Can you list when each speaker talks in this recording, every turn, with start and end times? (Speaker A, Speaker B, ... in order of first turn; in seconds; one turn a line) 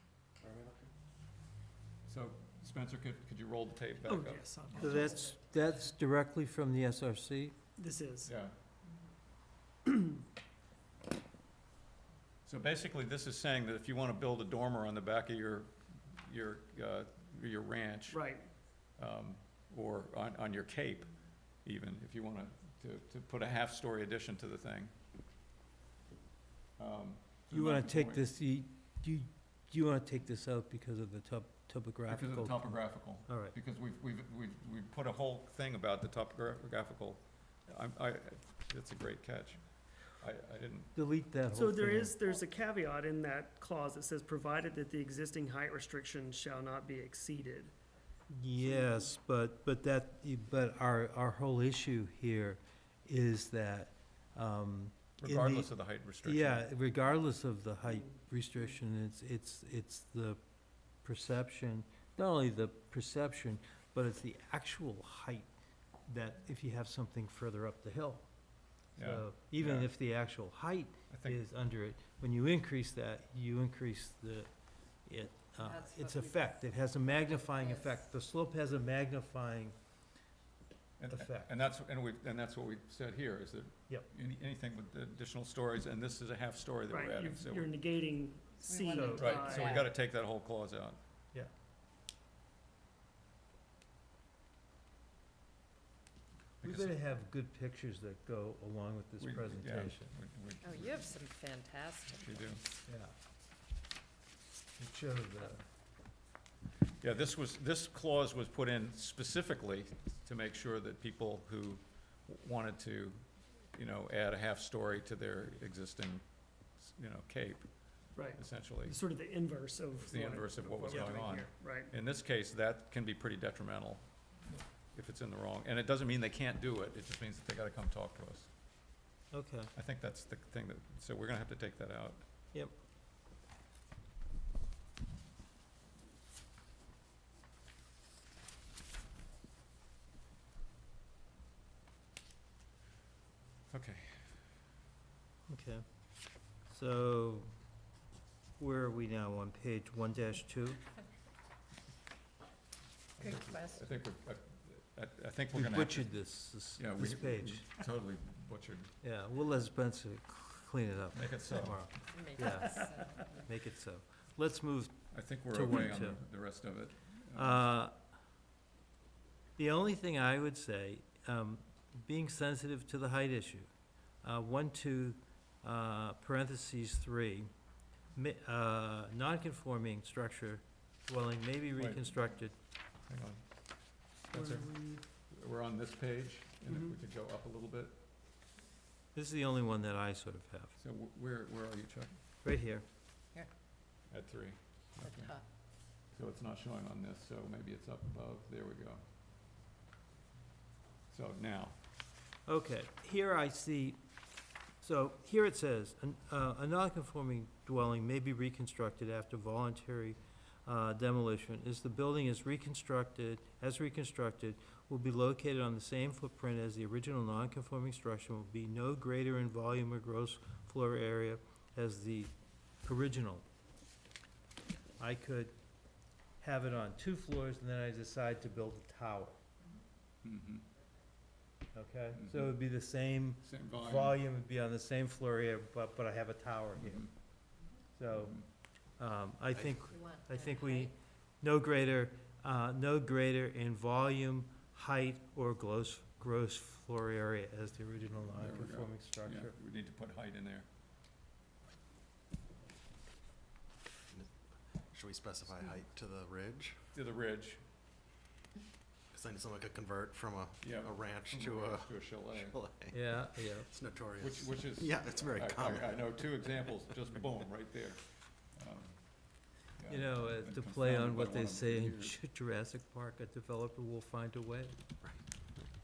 Speaker A: 0.4-0.9
Speaker B: 2.1-5.2
Speaker C: 4.0-5.3
Speaker D: 4.8-7.5
Speaker C: 7.8-8.3
Speaker B: 8.2-8.5
Speaker B: 12.5-18.2
Speaker C: 18.1-18.5
Speaker B: 19.0-21.1
Speaker B: 21.6-24.9
Speaker B: 26.8-28.3
Speaker D: 27.5-33.5
Speaker B: 32.1-41.0
Speaker D: 41.0-42.2
Speaker C: 41.5-47.7
Speaker D: 48.3-55.7
Speaker B: 55.2-56.7
Speaker D: 56.2-60.4
Speaker D: 61.0-65.5
Speaker D: 66.1-68.3
Speaker B: 69.0-69.9
Speaker D: 69.0-74.5
Speaker B: 71.1-71.4
Speaker D: 75.0-79.8
Speaker E: 75.6-76.5
Speaker E: 77.3-78.0
Speaker B: 81.0-87.7
Speaker D: 81.1-81.5
Speaker C: 86.9-89.9
Speaker E: 88.6-89.9
Speaker D: 88.9-89.4
Speaker B: 89.0-91.0
Speaker B: 96.6-97.0
Speaker D: 96.6-100.1
Speaker B: 99.2-101.2
Speaker E: 100.6-102.5
Speaker B: 102.1-102.6
Speaker D: 102.9-103.1
Speaker D: 104.8-105.6
Speaker B: 107.0-116.2
Speaker B: 116.8-119.0
Speaker C: 118.2-121.9
Speaker B: 120.0-124.1
Speaker B: 124.9-128.5
Speaker D: 129.3-129.7
Speaker B: 129.8-132.2
Speaker B: 143.7-144.3
Speaker D: 145.5-145.8
Speaker D: 146.7-147.5
Speaker D: 148.6-150.8
Speaker B: 153.2-156.2
Speaker E: 153.2-153.9
Speaker D: 155.5-157.6
Speaker B: 156.8-158.9
Speaker D: 159.0-165.0
Speaker B: 161.1-161.9
Speaker E: 162.1-163.4
Speaker B: 165.1-167.7
Speaker D: 165.5-166.2
Speaker D: 167.3-167.9
Speaker D: 169.6-173.7
Speaker D: 174.2-177.5
Speaker D: 178.2-182.5
Speaker B: 181.8-182.1
Speaker B: 183.1-183.4
Speaker B: 184.2-188.0
Speaker C: 184.3-185.0
Speaker D: 189.1-190.8
Speaker B: 190.8-192.2
Speaker D: 192.4-192.8
Speaker B: 194.1-195.4
Speaker E: 195.0-195.4
Speaker B: 196.1-199.0
Speaker B: 201.1-201.8
Speaker D: 202.5-204.0
Speaker D: 204.8-222.3
Speaker D: 222.8-223.4
Speaker D: 225.0-225.5
Speaker D: 226.4-229.4
Speaker B: 230.2-230.6
Speaker D: 231.7-237.1
Speaker B: 232.2-232.5
Speaker B: 233.4-234.2
Speaker B: 236.8-237.1
Speaker D: 238.0-238.4
Speaker B: 238.1-238.4
Speaker D: 239.0-249.6
Speaker A: 239.6-239.8
Speaker E: 239.9-240.9
Speaker B: 248.3-250.7
Speaker A: 254.1-256.8
Speaker B: 256.9-257.6
Speaker A: 259.1-266.4
Speaker B: 260.6-262.6
Speaker D: 262.9-263.7
Speaker B: 264.2-269.2
Speaker B: 269.8-272.2
Speaker D: 269.9-274.8